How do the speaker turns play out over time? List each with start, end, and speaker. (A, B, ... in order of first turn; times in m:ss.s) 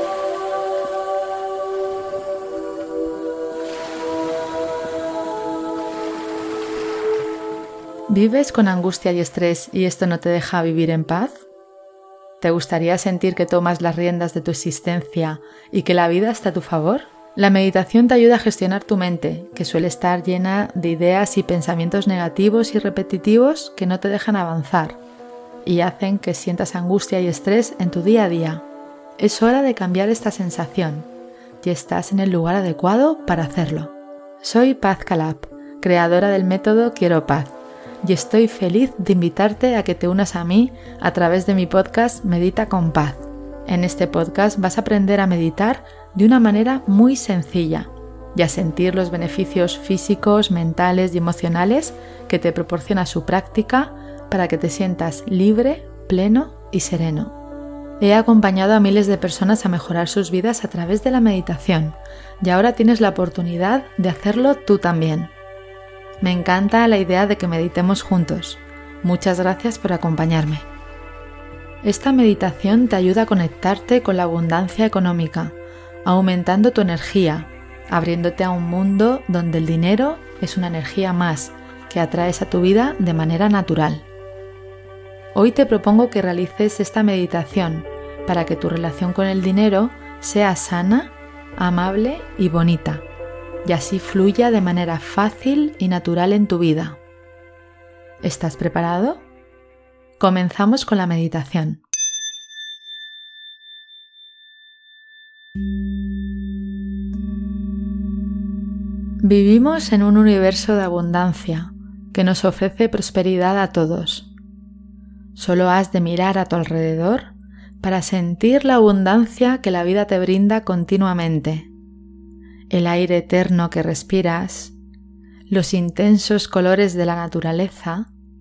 0:08.1-0:11.4 A
0:12.4-0:25.0 A
0:25.6-0:28.6 A
0:29.2-0:31.1 A
0:31.6-0:57.3 A
0:58.0-1:05.3 A
1:06.2-1:10.7 A
1:11.8-1:24.1 A
1:25.3-1:33.0 A
1:33.6-1:37.0 A
1:38.2-1:39.2 A
1:40.2-1:41.8 A
1:49.2-1:54.3 A
1:55.3-2:01.7 A
2:02.7-2:04.8 A
2:05.5-2:08.1 A